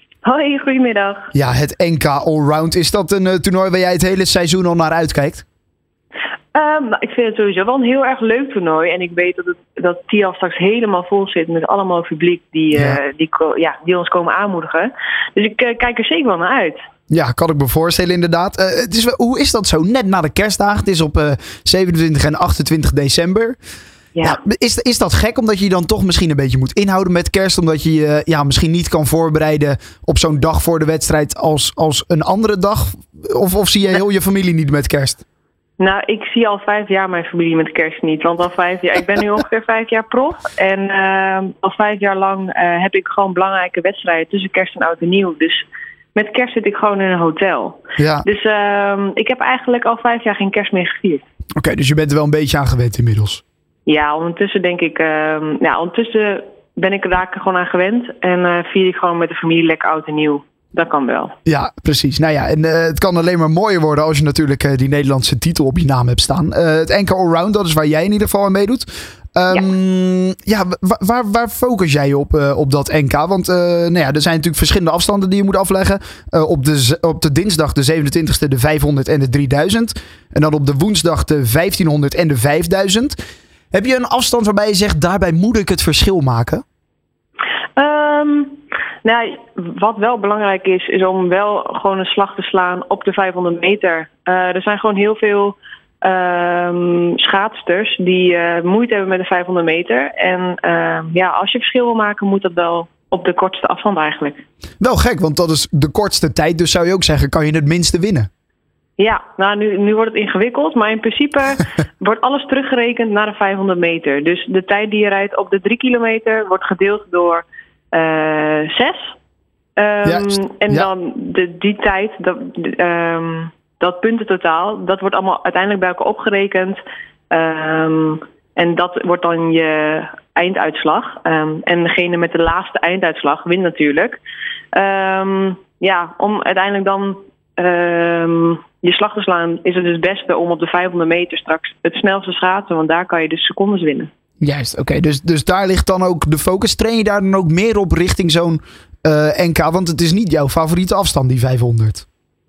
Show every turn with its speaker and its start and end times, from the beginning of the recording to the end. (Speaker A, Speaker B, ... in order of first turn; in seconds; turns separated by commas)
Speaker A: 0.2-1.3, Speaker B: 1.3-5.4, Speaker A: 6.5-16.8, Speaker B: 12.7-13.0, Speaker B: 17.1-23.6, Speaker B: 24.2-35.2, Speaker A: 35.8-51.2, Speaker B: 48.0-48.2, Speaker B: 51.6-53.4, Speaker A: 53.9-61.3, Speaker B: 61.5-83.2, Speaker B: 83.7-86.6, Speaker A: 87.8-104.4, Speaker B: 104.8-108.3, Speaker A: 109.0-119.1, Speaker A: 119.8-126.8, Speaker B: 120.0-120.9, Speaker A: 127.3-134.2, Speaker A: 134.7-144.1, Speaker B: 144.4-152.0